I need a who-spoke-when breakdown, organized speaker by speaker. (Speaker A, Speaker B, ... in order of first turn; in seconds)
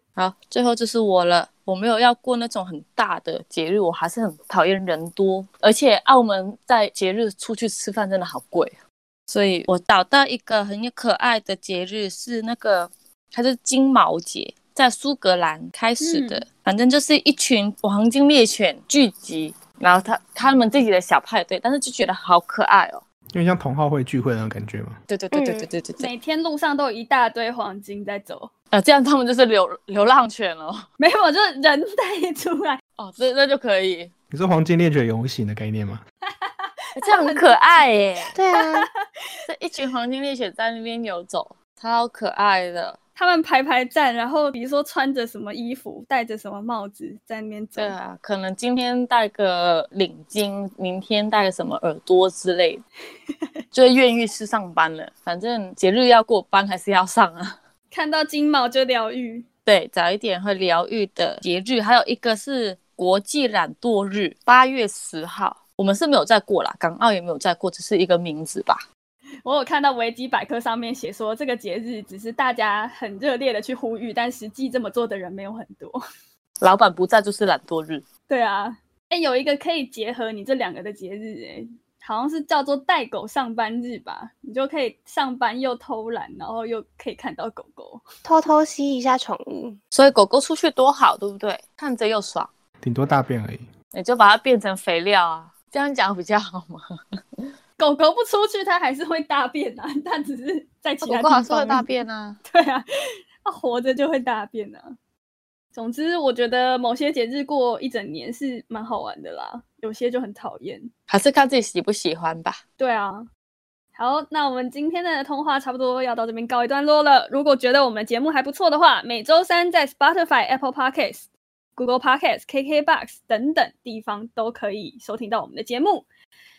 Speaker A: 0.2-8.8, 9.3-23.0, 25.1-26.1, 28.7-30.9, 33.0-34.1, 37.0-38.3, 39.5-43.0, 47.8-52.8, 53.7-57.6, 59.7-68.8, 76.6-78.0, 89.9-92.5, 93.9-96.9, 101.0-102.4, 111.1-112.6
Speaker B: 16.0-16.4, 26.0-28.5, 31.0-32.8, 36.3-37.9, 38.5-39.0, 43.2-48.0, 57.9-59.5, 69.5-76.0, 78.3-88.0, 97.8-101.9, 102.5-102.8, 103.4-105.0, 105.8-110.9, 112.8-113.3, 114.0-126.1
Speaker C: 23.3-25.0, 34.3-36.0, 92.8-93.7
Speaker D: 25.3-25.7, 38.4-38.9, 88.2-89.8